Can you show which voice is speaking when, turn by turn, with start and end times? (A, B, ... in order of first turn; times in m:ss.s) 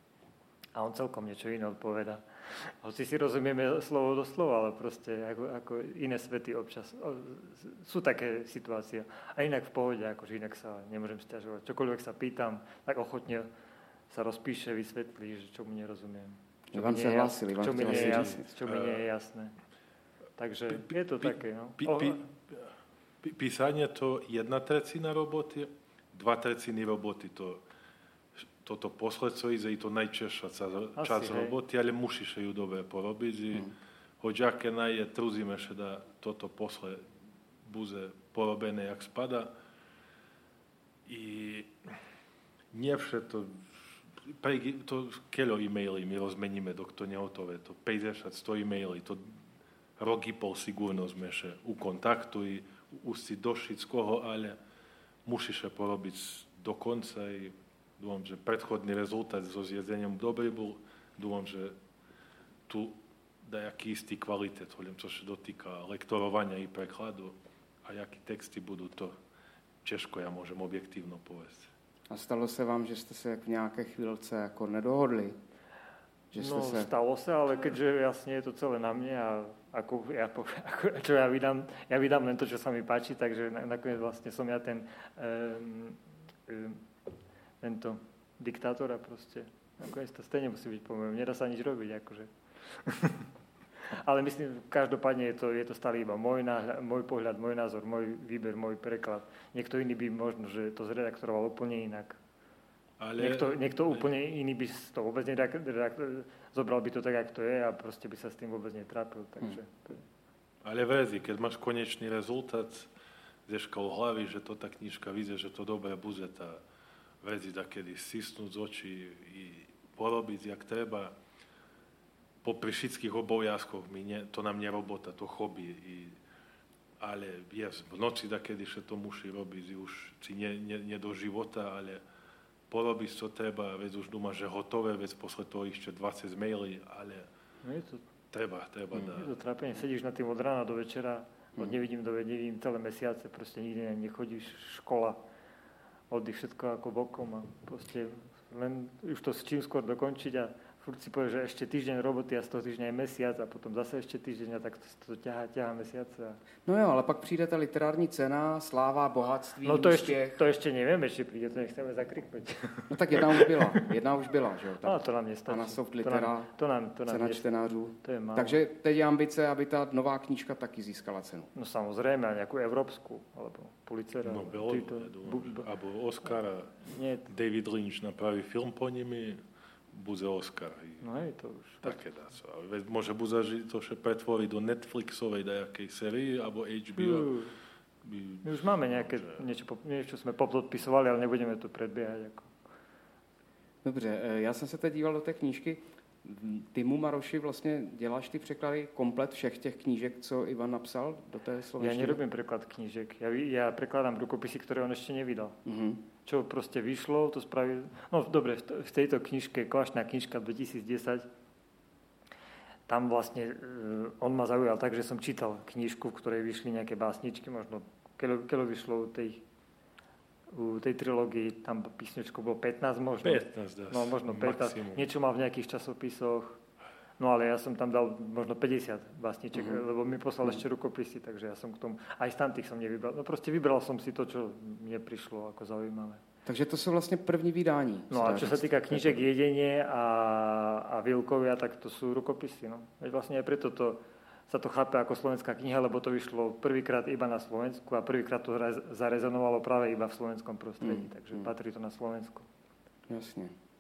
0:00.8-0:13.5 A
0:14.1-0:19.5 A
0:16.7-0:18.4 B
0:17.8-0:19.0 C
0:20.4-0:22.2 A
0:20.7-0:22.6 C
0:23.2-0:27.6 C
0:28.6-0:37.0 C
0:31.0-0:31.6 A
0:37.7-0:39.5 C
0:41.1-0:41.7 C
0:42.7-0:43.5 C
0:44.2-0:49.2 C
0:50.0-0:54.6 C
0:55.3-1:01.8 C
1:02.7-1:09.2 C
1:09.8-1:11.7 C
1:12.1-1:15.4 B
1:16.3-1:16.9 B
1:16.4-1:26.8 A
1:27.6-1:33.3 A
1:33.9-1:42.2 A
1:43.0-1:44.1 C
1:43.2-1:50.0 A
1:50.6-1:52.9 C
1:53.5-1:56.6 C
1:57.2-2:01.2 C
2:02.4-2:06.2 C
2:07.0-2:12.0 C
2:12.7-2:17.3 C
2:17.6-2:18.0 A
2:18.3-2:19.3 C
2:19.0-2:25.2 A
2:26.1-2:36.4 A
2:36.7-2:40.4 B
2:39.6-2:43.8 A
2:42.9-2:46.5 B
2:44.8-2:47.4 A
2:47.1-2:51.5 B
2:48.0-2:48.6 A
2:51.5-2:55.7 A
2:54.2-2:59.4 C
2:56.3-2:57.3 A
2:59.9-3:01.0 C
3:01.0-3:02.0 A
3:01.8-3:07.3 C
3:07.0-3:07.5 A
3:08.0-3:09.3 C
3:08.4-3:12.5 A
3:13.8-3:22.2 B
3:21.8-3:25.6 A
3:25.6-3:26.0 B
3:26.2-3:31.3 A
3:32.9-3:39.4 A
3:40.5-3:46.6 A
3:43.2-3:45.1 C
3:47.2-3:56.2 A
3:49.5-3:49.8 B
3:56.5-3:59.2 B
3:58.1-4:12.5 A
4:10.8-4:11.5 B
4:13.1-4:13.5 B